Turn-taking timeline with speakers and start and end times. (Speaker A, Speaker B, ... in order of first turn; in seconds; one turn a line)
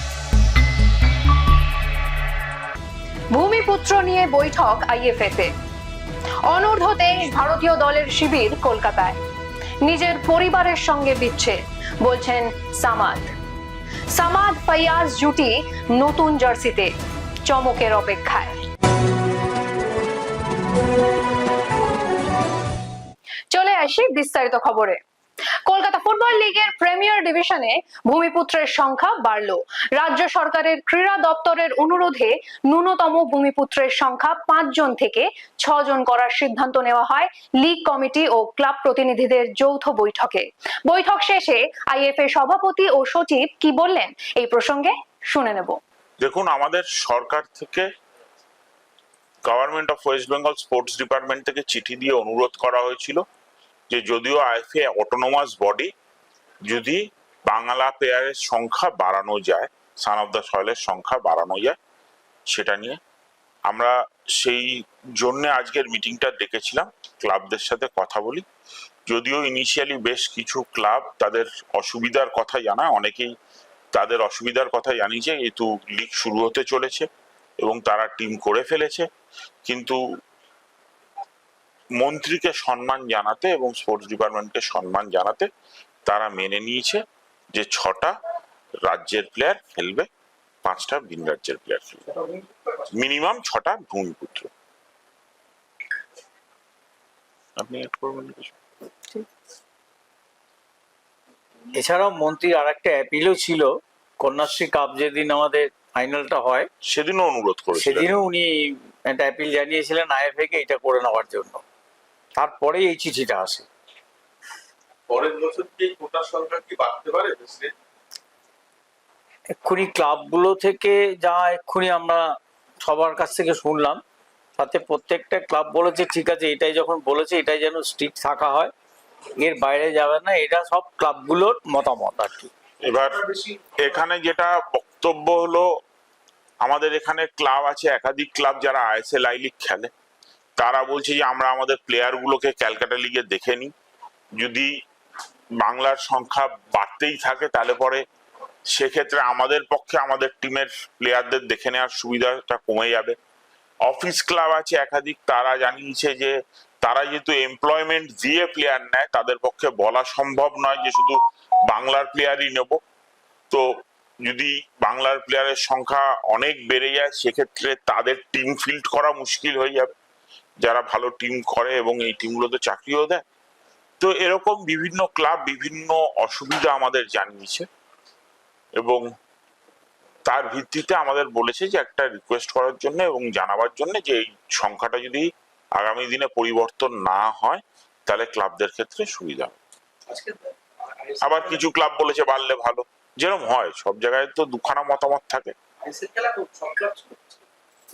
Speaker A: 3.3-5.5
Speaker A: 6.5-9.2
Speaker A: 9.8-13.3
Speaker A: 14.1-16.9
Speaker A: 17.4-18.5
Speaker A: 23.5-25.0
Speaker A: 25.6-45.8
Speaker B: 46.2-47.9
Speaker B: 49.4-53.2
Speaker B: 53.9-55.9
Speaker B: 56.7-61.8
Speaker B: 62.5-63.0
Speaker B: 63.7-68.4
Speaker B: 69.1-73.3
Speaker B: 73.9-77.1
Speaker B: 77.6-79.1
Speaker B: 79.7-80.0
Speaker B: 82.0-85.5
Speaker B: 86.0-87.0
Speaker B: 87.5-88.2
Speaker B: 88.8-90.1
Speaker B: 90.6-92.0
Speaker B: 92.9-94.5
Speaker B: 97.6-98.5
Speaker C: 101.7-106.7
Speaker B: 106.9-108.2
Speaker C: 107.7-111.6
Speaker C: 112.3-113.7
Speaker D: 115.1-117.7
Speaker C: 119.5-124.0
Speaker C: 124.6-128.7
Speaker C: 129.4-132.5
Speaker B: 132.8-135.7
Speaker B: 136.6-139.9
Speaker B: 140.6-143.7
Speaker B: 144.4-144.7
Speaker B: 145.6-148.0
Speaker B: 148.7-153.2
Speaker B: 153.8-162.8
Speaker B: 164.2-169.9
Speaker B: 170.6-173.2
Speaker B: 174.0-177.7
Speaker B: 178.8-179.0
Speaker B: 180.2-189.6
Speaker D: 190.1-190.4
Speaker B: 191.2-195.5
Speaker D: 191.3-191.6
Speaker D: 195.8-197.4